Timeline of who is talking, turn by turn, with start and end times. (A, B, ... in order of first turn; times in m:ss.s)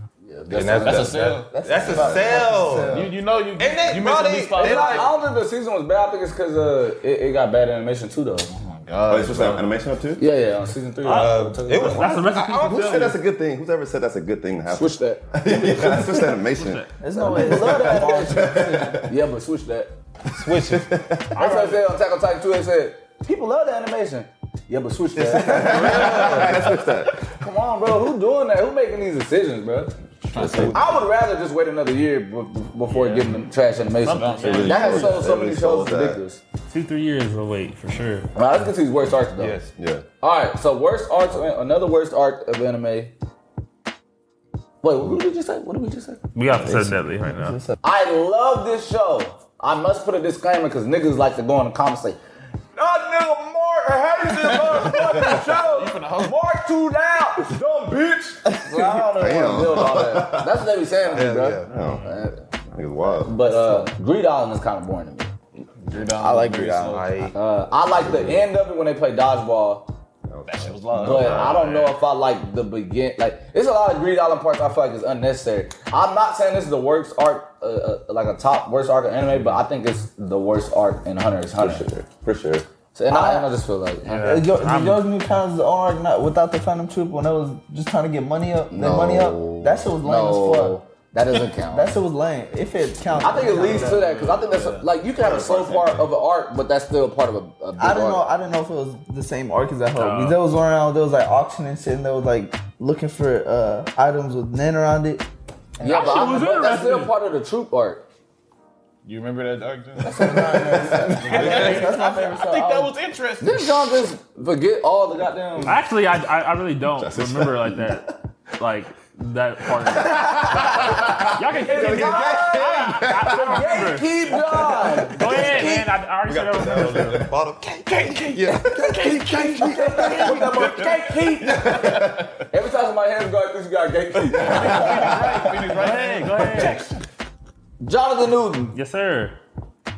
0:00.2-0:01.2 A
0:00.5-0:03.0 B
0:00.8-0:01.5 C
0:01.5-0:03.0 D
0:01.8-0:03.1 E
0:02.9-0:05.1 C
0:03.6-0:05.1 B
0:04.5-0:08.5 A
0:08.5-0:09.7 C
0:09.1-0:10.2 E
0:10.2-0:12.2 A
0:11.0-0:13.2 F
0:11.0-0:13.1 B
0:12.3-0:16.9 E
0:14.7-0:15.2 A
0:16.5-0:16.9 F
0:17.0-0:18.5 D
0:17.2-0:19.9 A
0:17.4-0:19.1 E
0:17.8-0:18.3 B
0:20.4-0:20.9 B
0:20.6-0:21.5 E
0:21.4-0:21.8 F
0:21.4-0:26.6 A
0:25.1-0:27.2 E
0:25.7-0:26.4 C
0:26.1-0:26.5 B
0:27.3-0:29.9 A
0:30.2-0:31.0 C
0:30.4-0:30.8 E
0:30.4-0:30.8 B
0:30.7-0:36.4 A
0:32.9-0:33.3 F
0:34.0-0:35.0 C
0:34.2-0:35.2 F
0:34.4-0:36.2 E
0:36.7-0:38.3 F
0:38.4-0:39.6 A
0:39.4-0:39.7 B
0:39.8-0:40.0 E
0:40.2-0:43.1 A
0:44.8-0:46.2 A
0:46.3-0:47.6 F
0:46.6-0:47.8 D
0:47.8-0:52.2 A
0:52.8-1:02.4 A
0:54.3-0:56.4 C
0:58.6-0:59.0 D
0:59.1-1:00.6 E
1:01.1-1:01.7 B
1:01.6-1:03.5 E
1:01.7-1:02.1 F
1:03.2-1:05.3 A
1:05.8-1:07.1 C
1:06.0-1:07.1 D
1:06.9-1:07.3 B
1:07.3-1:09.9 A
1:07.9-1:08.5 E
1:10.3-1:11.6 E
1:10.4-1:12.0 C
1:10.9-1:21.8 A
1:21.6-1:22.7 E
1:22.9-1:24.4 A
1:23.1-1:23.5 D
1:24.0-1:25.1 F
1:24.2-1:30.8 D
1:28.7-1:32.0 A
1:31.6-1:34.0 D
1:33.2-1:38.3 A
1:33.2-1:34.9 C
1:35.1-1:36.1 E
1:37.8-1:45.2 D
1:40.0-1:40.4 F
1:45.8-1:46.5 D
1:45.8-1:48.0 A
1:45.8-1:47.1 F
1:49.0-1:54.0 C
1:50.0-1:52.9 D
1:50.1-1:51.9 A
1:50.8-1:51.6 E
1:53.4-1:55.8 A
1:55.7-2:04.4 F
1:56.8-1:58.1 E
1:59.6-2:05.8 E
2:01.6-2:05.7 A
2:05.0-2:07.2 F
2:05.4-2:05.7 B
2:06.2-2:10.9 B
2:06.6-2:07.3 E
2:08.4-2:12.3 E
2:08.7-2:15.1 A
2:14.3-2:15.5 E
2:14.4-2:17.0 C
2:15.6-2:16.9 F
2:17.8-2:18.8 A
2:18.7-2:19.4 F